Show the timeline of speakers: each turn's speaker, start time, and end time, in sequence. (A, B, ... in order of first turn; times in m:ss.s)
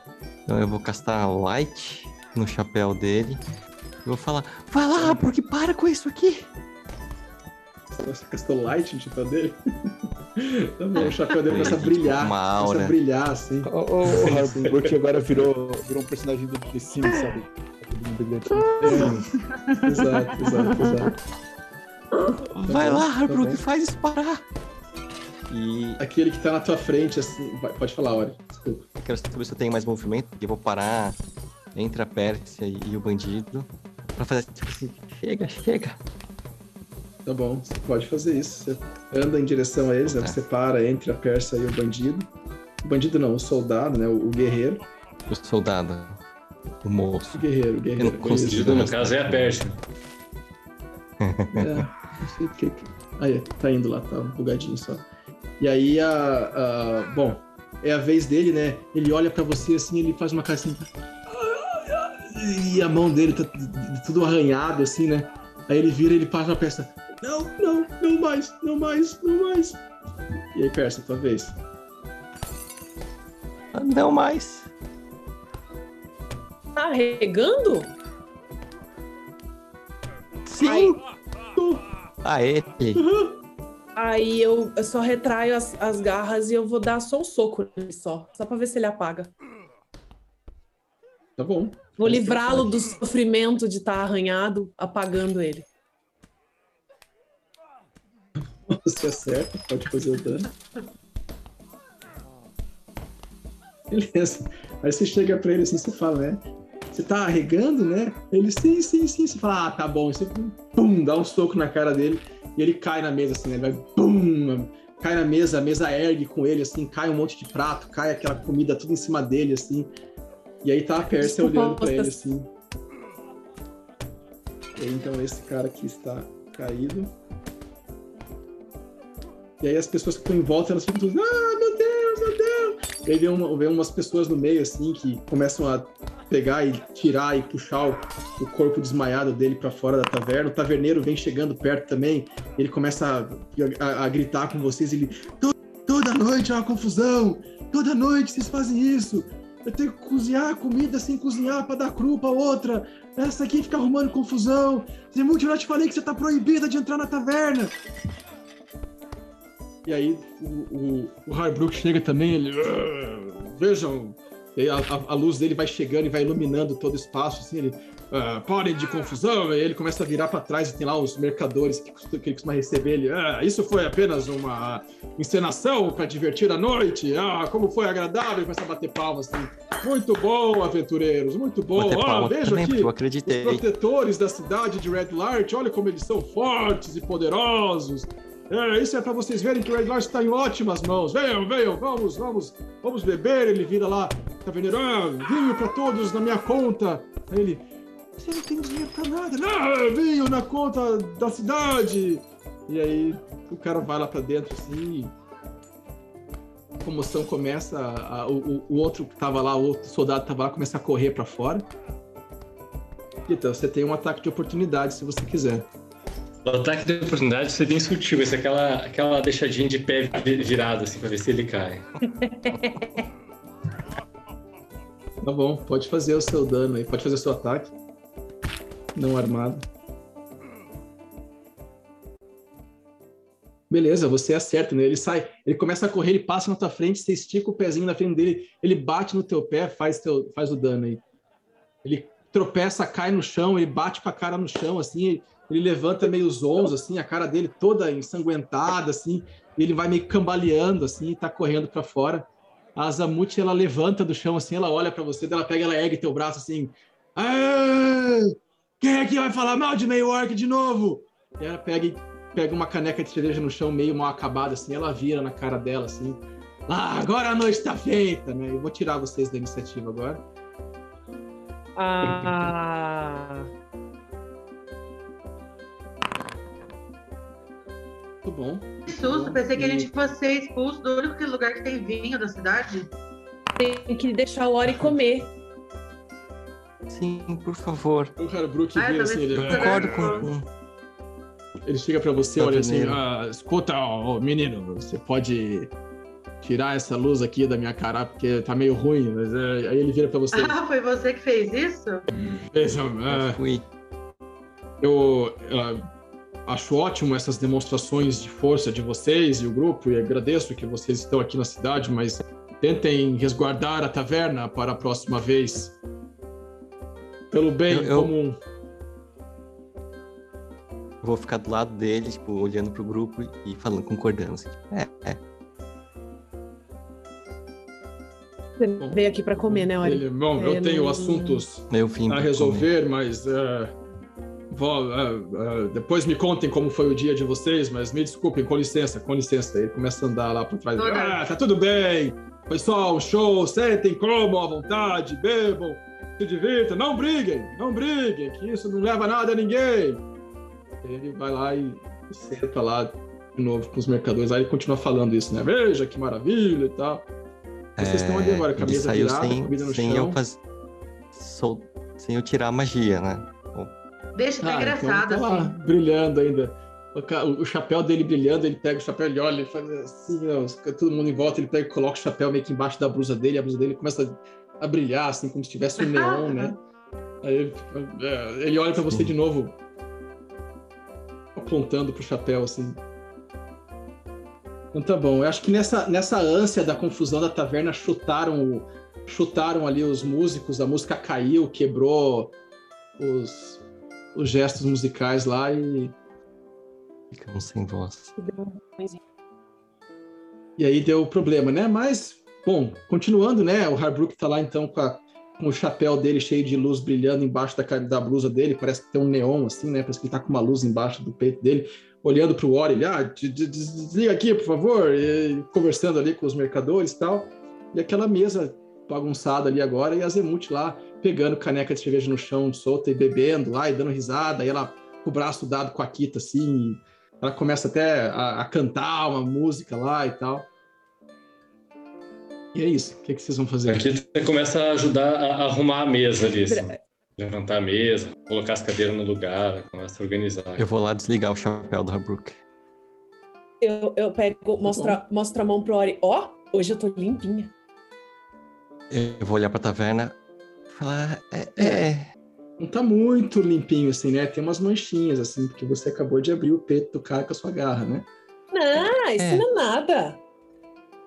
0:00.5-0:03.4 A
0:04.0-0:06.5 A
0:07.9-0:14.7 B
0:11.0-0:13.0 A
0:13.6-0:19.2 C
0:18.8-0:19.2 B
0:18.8-0:19.2 A
0:19.7-0:21.1 B
0:20.0-0:21.0 C
0:22.5-0:24.4 A
0:22.6-0:23.6 B
0:25.5-0:26.0 A
0:26.0-0:28.9 B
0:29.0-0:31.2 A
0:31.8-0:36.0 A
0:37.3-0:42.3 B
0:40.0-0:40.4 A
0:42.8-0:44.8 B
0:45.3-0:46.2 A
0:46.8-0:47.4 A
0:47.3-0:48.9 B
0:48.0-0:49.7 A
0:48.3-0:49.8 D
0:51.2-0:51.8 A
0:51.6-0:55.0 B
0:55.6-1:09.8 B
1:10.5-1:11.6 B
1:13.8-1:14.7 A
1:16.8-1:17.9 E
1:20.5-1:21.0 A
1:20.6-1:21.0 E
1:22.2-1:23.0 A
1:23.0-1:23.3 B
1:24.0-1:29.3 E
1:31.4-1:32.8 B
1:32.0-1:35.7 E
1:38.4-1:40.5 B
1:43.9-1:59.9 B
2:00.6-2:02.5 B
2:01.1-2:02.2 E
2:04.8-2:07.1 B
2:09.6-2:37.7 B
2:39.9-3:17.6 B
3:01.8-3:03.6 A
3:18.2-3:25.1 B
3:26.8-3:31.7 B
3:33.3-3:35.7 B
3:36.4-3:41.8 D
3:42.1-3:43.1 E
3:45.2-3:47.7 B
3:49.0-3:49.6 B
3:53.7-4:01.0 B
4:01.8-4:30.2 B
4:31.8-4:33.5 E
4:38.2-4:39.9 B
4:38.9-4:42.9 F
4:43.6-4:45.3 E
4:44.7-4:45.0 B
4:46.9-4:48.1 A
4:48.2-4:50.3 B
4:48.8-4:50.3 F
4:49.4-4:50.5 A
4:51.7-4:55.7 B
4:52.4-4:53.0 A
4:56.4-5:00.6 B
5:00.3-5:02.1 F
5:02.5-5:03.4 B
5:03.1-5:03.6 A
5:04.8-5:05.8 B
5:06.5-5:15.8 B
5:17.3-5:18.4 B
5:17.7-5:18.1 A
5:21.0-5:25.2 A
5:28.6-5:31.4 E
5:28.8-5:33.7 B
5:31.7-5:32.7 A
5:34.5-5:50.0 B
5:40.8-5:41.2 F
5:50.8-5:57.1 B
5:57.8-6:00.2 B
5:57.8-6:00.4 A
6:01.1-6:03.7 A
6:04.2-6:05.6 F
6:04.4-6:16.6 B
6:15.8-6:16.6 F
6:17.2-6:19.6 B
6:21.4-6:22.8 B
6:24.7-6:32.4 B
6:33.0-6:33.6 B
6:34.2-6:36.0 B
6:37.1-6:38.2 A
6:38.2-6:39.0 E
6:40.6-7:10.5 B
7:12.5-7:13.9 B
7:13.7-7:20.7 D
7:16.4-7:16.8 E
7:20.6-7:22.4 A
7:23.6-7:27.5 E
7:24.7-7:25.0 B
7:28.9-7:30.1 A
7:30.7-7:32.1 A
7:31.6-7:31.8 B
7:32.6-7:38.1 B
7:38.5-7:40.2 E
7:38.8-7:39.5 A